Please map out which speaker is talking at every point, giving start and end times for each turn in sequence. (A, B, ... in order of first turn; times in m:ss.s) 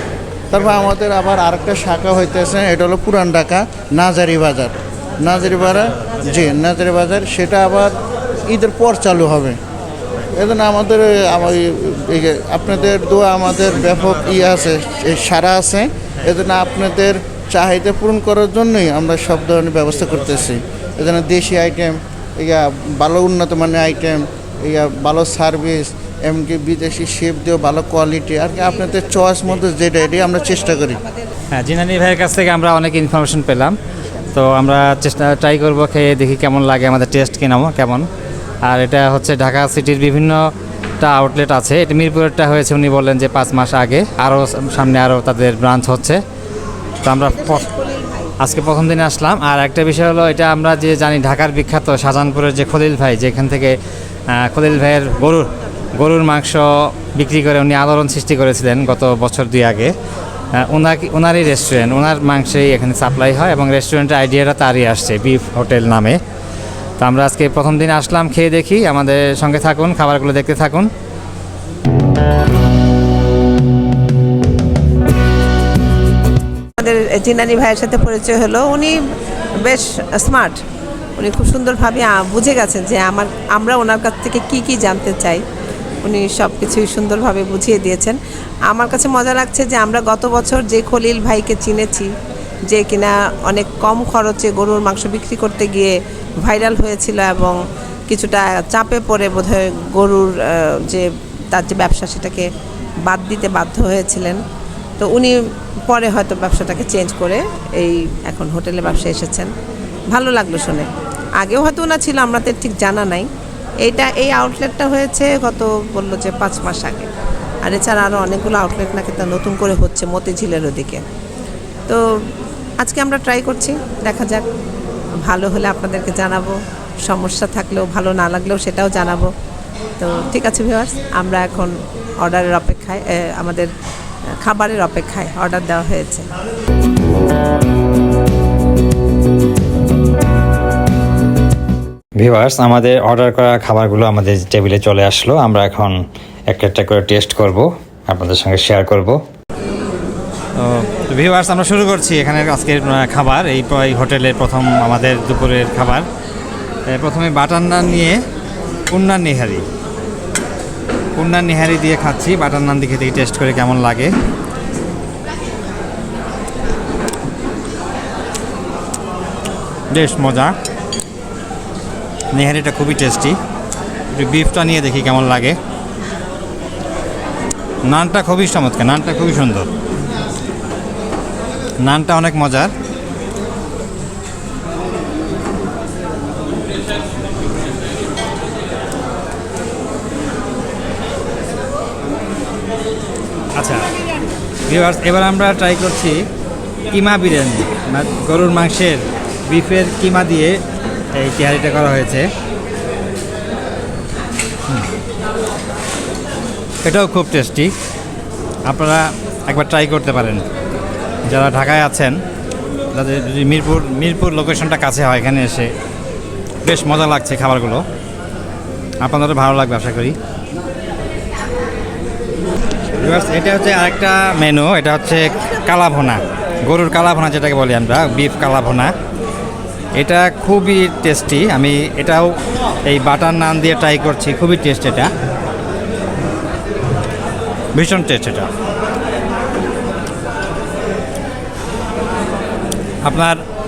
0:00.5-0:09.6 A
0:10.3-0:31.0 A
0:30.2-0:30.4 B
0:31.6-0:33.7 C
0:34.3-0:38.0 C
0:38.7-0:40.4 C
0:39.4-0:39.9 D
0:41.0-0:46.2 C
0:41.9-0:42.3 D
0:45.0-0:45.3 D
0:47.0-0:47.7 C
0:47.5-0:48.2 B
0:48.4-0:53.7 C
0:48.8-0:49.1 D
0:50.9-0:51.3 D
0:53.1-0:53.6 D
0:54.4-0:56.3 C
0:56.1-0:56.6 D
0:57.0-0:59.9 C
0:58.2-0:59.4 D
1:00.7-1:06.2 C
1:03.9-1:06.0 D
1:07.0-1:10.9 C
1:07.1-1:08.2 D
1:08.9-1:09.6 D
1:10.3-1:10.7 D
1:16.8-1:19.0 B
1:19.6-1:20.6 B
1:21.2-1:25.4 B
1:26.0-1:32.1 B
1:32.7-1:42.5 B
1:43.0-1:44.4 B
1:45.0-1:45.3 B
1:45.9-1:49.5 B
1:50.1-1:50.9 B
1:51.4-1:53.3 B
1:53.8-1:57.1 B
1:57.6-2:01.0 B
2:02.8-2:04.4 B
2:05.2-2:09.3 B
2:10.0-2:13.7 B
2:14.4-2:16.3 B
2:22.2-2:26.0 D
2:26.5-2:29.2 D
2:30.6-2:36.0 C
2:36.9-2:38.2 C
2:38.9-2:39.6 C
2:39.0-2:39.3 D
2:41.2-2:44.1 C
2:49.9-2:50.5 C
2:52.3-2:53.4 C
2:54.1-2:55.6 C
2:57.8-2:59.7 C
3:01.8-3:02.7 C
3:13.6-3:13.8 C
3:14.7-3:16.2 C
3:16.9-3:20.6 C
3:21.2-3:22.2 C
3:26.8-3:27.7 C
3:28.7-3:30.4 C
3:31.3-3:32.2 C
3:32.9-3:35.7 C
3:36.6-3:37.8 C
3:39.0-3:40.1 C
3:43.0-3:48.9 C
3:50.0-3:52.3 C
3:52.9-3:55.1 C
3:57.8-3:58.5 C
4:03.0-4:03.4 C